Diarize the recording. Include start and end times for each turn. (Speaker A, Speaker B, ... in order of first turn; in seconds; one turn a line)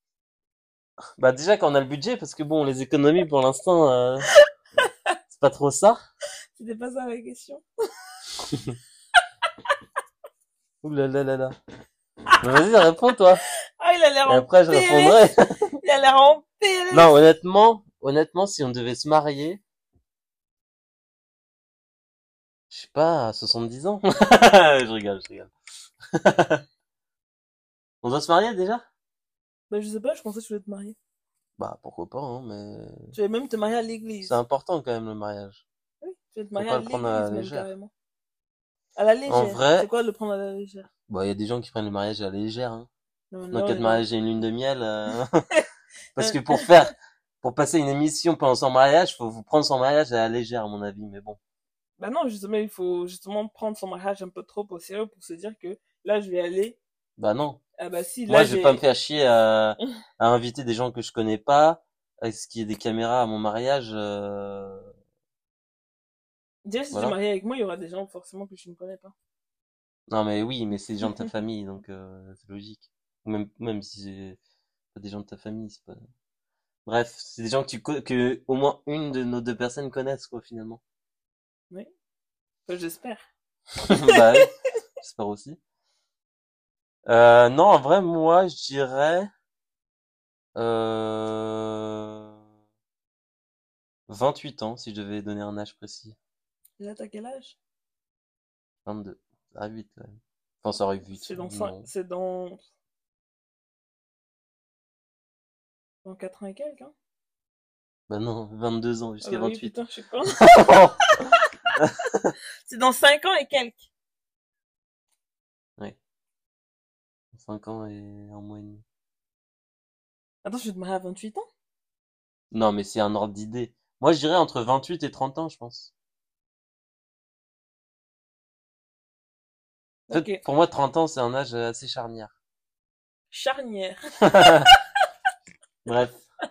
Speaker A: 1.2-4.3
Speaker A: 5.3-6.0
Speaker B: 6.5-7.6
Speaker A: 8.5-8.8
Speaker A: 10.8-11.6
Speaker A: 12.4-13.4
Speaker B: 13.8-15.3
Speaker A: 14.3-15.7
Speaker B: 15.8-17.2
Speaker A: 16.9-19.6
Speaker A: 22.7-25.5
Speaker A: 26.1-26.6
Speaker A: 28.0-28.8
Speaker B: 29.7-31.0
Speaker A: 31.6-33.1
Speaker B: 33.1-34.4
Speaker A: 34.2-35.6
Speaker B: 36.0-37.9
Speaker A: 36.5-37.7
Speaker B: 39.0-40.9
Speaker A: 39.3-39.9
Speaker A: 41.1-42.9
Speaker B: 43.3-44.0
Speaker A: 43.5-45.4
Speaker A: 46.1-51.4
Speaker B: 46.2-46.7
Speaker B: 52.0-56.8
Speaker A: 57.2-57.6
Speaker B: 57.8-58.8
Speaker A: 58.3-64.9
Speaker B: 66.6-69.1
Speaker A: 70.1-74.4
Speaker A: 74.9-76.0
Speaker A: 76.8-80.8
Speaker B: 82.7-83.2
Speaker A: 83.9-85.6
Speaker B: 84.1-84.5
Speaker A: 87.0-89.3
Speaker A: 90.5-92.3
Speaker A: 94.1-96.2
Speaker B: 96.8-97.6
Speaker A: 98.8-101.9
Speaker B: 101.1-102.6
Speaker B: 106.0-106.9
Speaker A: 108.1-109.8
Speaker B: 109.2-111.4
Speaker A: 110.4-111.0
Speaker A: 111.8-112.3
Speaker B: 112.7-113.8
Speaker A: 117.3-118.8
Speaker B: 120.4-121.5
Speaker A: 122.5-125.9
Speaker B: 130.1-130.4
Speaker A: 130.1-132.3
Speaker B: 133.3-134.7
Speaker A: 134.2-134.7
Speaker A: 135.8-136.2